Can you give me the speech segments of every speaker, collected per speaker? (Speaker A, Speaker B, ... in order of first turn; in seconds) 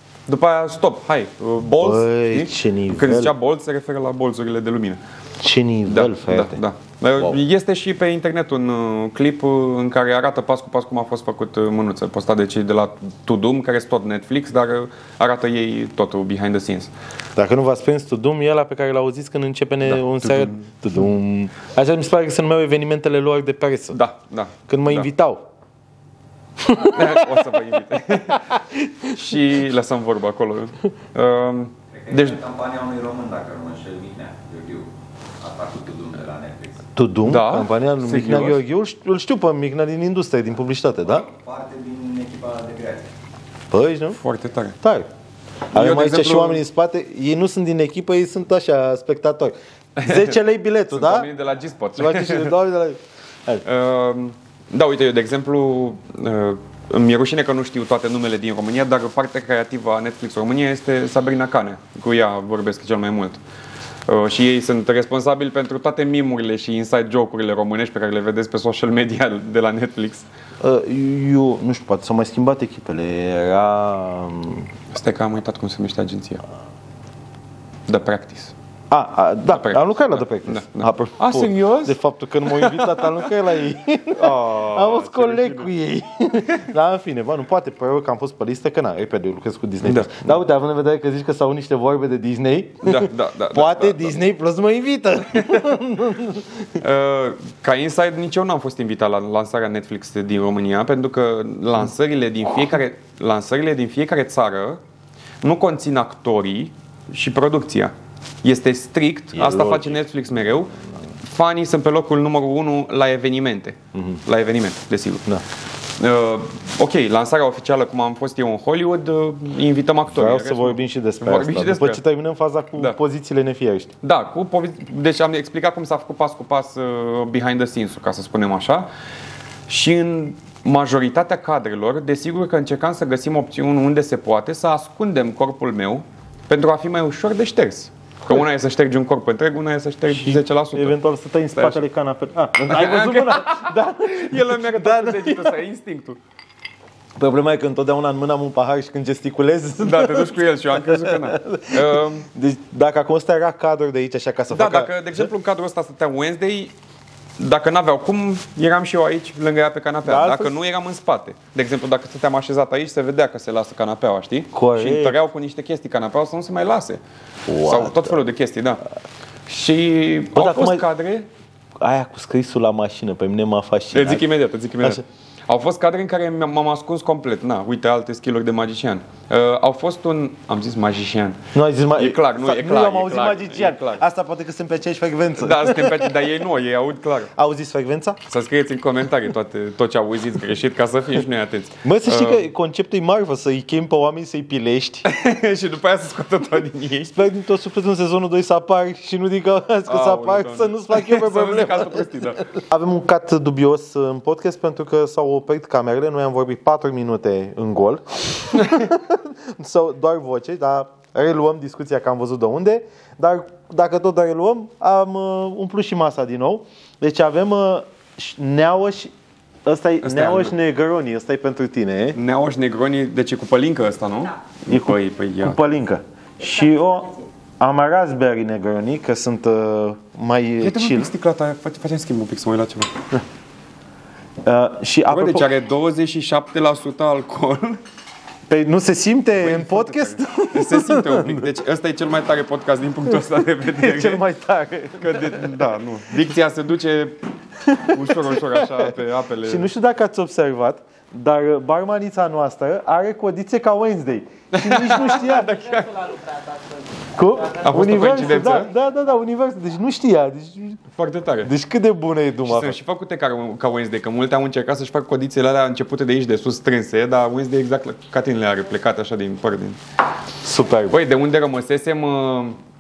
Speaker A: 0.3-5.0, 5.9-16.9, 19.9-20.7, 23.9-25.1, 26.8-32.4, 37.2-38.6, 44.1-44.8, 45.7-46.6, 50.0-50.4, 50.9-52.5, 53.6-63.4, 64.1-70.3, 74.9-76.4, 77.9-78.5, 79.5-83.3, 84.1-85.7, 89.8-90.3, 92.8-94.1, 96.8-104.8, 105.4-115.3, 116.0-122.0, 124.0-128.9, 129.7-141.0, 141.6-141.8, 142.7-146.2, 149.8-152.3, 154.5-156.7, 157.4-167.0, 167.6-168.8, 169.5-171.3, 173.9-181.4, 182.0-184.0, 185.4-187.3, 188.3-192.4, 195.0-197.3, 199.9-202.5, 208.5-208.9, 220.0-220.5, 222.1-225.6, 230.6-232.9, 235.1-237.8, 239.4-244.2, 245.0-247.2, 247.7-249.7, 254.5-255.9, 257.6-258.7, 261.0-261.5, 262.4-269.8, 270.9-272.6
Speaker B: 1.8-3.3, 5.4-6.6, 17.4-24.0, 24.7-25.4, 26.6-27.3, 28.4-29.1, 37.0-41.2, 43.7-44.2, 44.8-45.1, 45.7-51.3, 52.0-53.6, 70.6-74.7, 78.9-96.7, 109.3-110.0, 120.1-123.9, 140.1-145.6, 147.2-155.3, 160.0-160.6, 164.5-165.2, 167.5-168.2, 170.3-170.8, 171.8-174.3, 181.5-186.2, 187.3-188.2, 191.8-195.1, 197.1-219.1, 219.7-222.2, 224.7-231.1, 234.4-235.5, 238.5-241.5, 243.7-245.6, 247.9-255.6, 257.1-260.8, 261.4-262.8, 270.4-271.0
Speaker C: 31.9-36.9, 41.0-43.1
Speaker D: 226.5-227.2, 255.0-256.8